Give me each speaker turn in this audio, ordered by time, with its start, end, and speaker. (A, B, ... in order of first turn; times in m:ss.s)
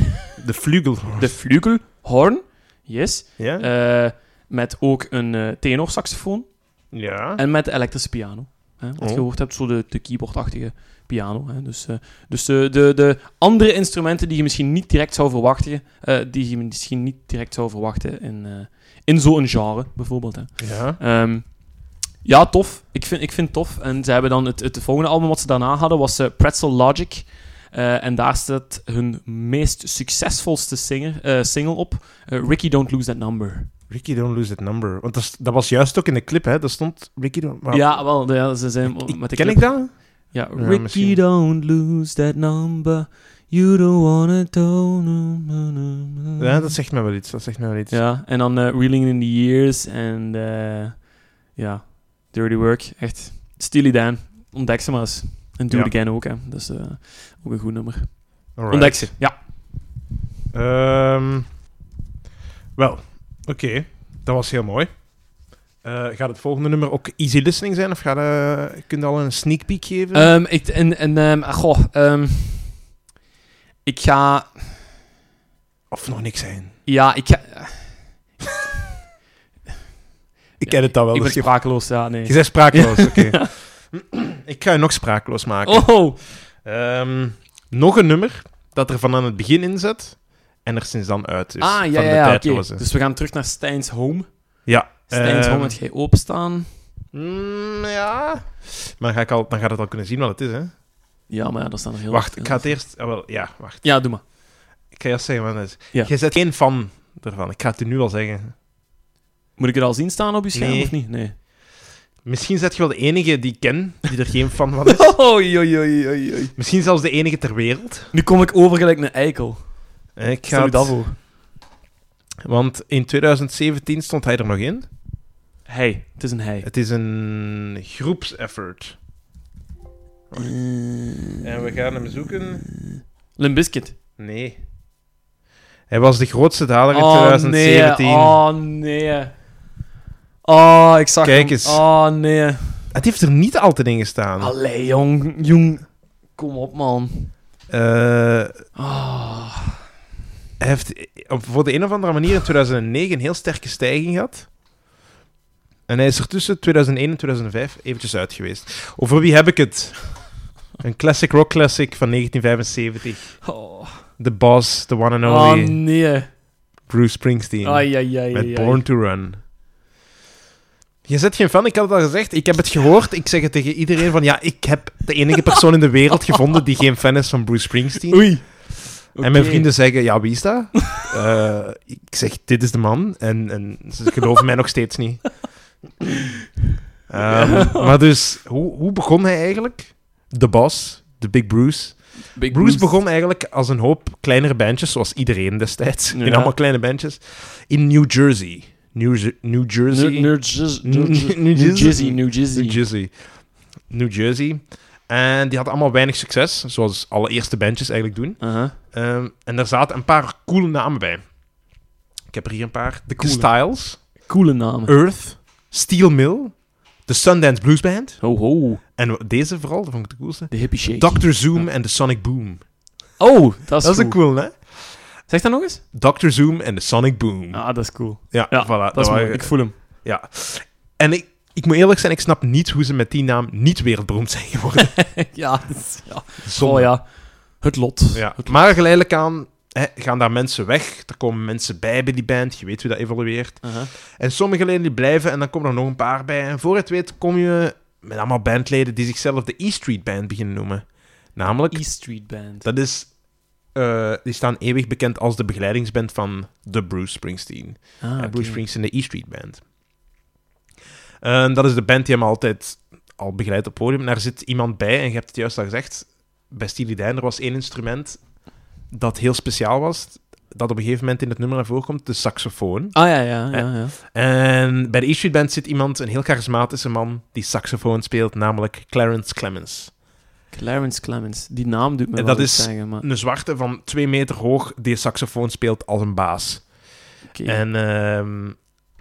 0:00.4-0:01.4 A
0:01.1-0:33.7 B
0:03.4-0:03.7 A
0:06.9-0:07.4 A
0:09.0-0:09.3 A
0:20.6-0:21.0 A
0:33.9-0:41.2 A
0:37.7-0:46.7 B
0:46.4-0:48.0 A
0:47.9-0:59.4 B
0:55.7-0:55.9 A
0:58.5-0:59.3 A
1:00.5-1:01.6 A
1:02.8-1:10.3 A
1:10.1-1:13.0 B
1:13.8-1:14.8 B
1:15.9-1:16.8 A
1:16.8-1:18.2 B
1:20.6-1:23.5 B
1:20.6-1:32.8 A
1:25.6-1:26.2 B
1:31.6-1:36.8 B
1:34.6-1:35.8 A
1:37.1-1:40.7 A
1:41.3-1:43.0 B
1:42.1-1:44.2 A
1:43.8-1:44.2 B
1:44.9-1:48.6 A
1:49.6-1:51.4 B
1:50.5-1:51.0 A
1:52.2-1:55.2 A
1:54.9-1:56.5 B
1:56.6-1:58.1 A
1:58.1-2:01.2 B
2:00.2-2:01.1 A
2:02.4-2:04.9 A
2:05.6-2:06.7 B
2:06.6-2:09.0 A
2:10.3-2:10.6 A
2:10.4-2:11.4 B
2:11.4-2:12.6 A
2:12.4-2:14.0 B
2:14.2-2:14.6 A
2:15.9-2:18.4 A
2:16.9-2:19.4 B
2:20.4-2:22.8 B
2:21.2-2:21.8 A
2:22.9-2:24.5 A
2:24.4-2:27.3 B
2:27.7-2:28.6 A
2:28.8-2:29.8 B
2:30.6-2:34.5 A
2:35.9-2:45.9 A
2:43.4-2:44.1 B
2:45.2-2:46.3 B
2:46.8-2:49.5 A
2:47.6-2:48.9 B
2:51.0-3:05.5 A
2:58.1-3:00.0 B
3:07.1-3:31.6 A
3:07.2-3:07.9 B
3:12.3-3:13.0 B
3:16.1-3:16.6 B
3:19.9-3:22.8 B
3:28.4-3:28.8 B
3:32.3-3:34.3 A
3:33.2-3:34.9 B
3:34.8-3:42.6 A
3:38.2-3:38.8 B
3:40.5-3:41.7 B
3:43.2-3:45.8 B
3:43.8-3:45.3 A
3:45.9-3:55.3 A
3:47.5-3:49.8 B
3:55.3-3:58.7 B
3:56.4-3:57.0 A
3:58.1-4:19.7 A
4:03.6-4:03.9 B
4:11.4-4:12.7 B
4:18.0-4:18.6 B
4:21.2-4:40.0 A
4:32.9-4:33.9 B
4:40.5-4:43.0 B
4:42.1-4:48.7 A
4:47.3-4:47.6 B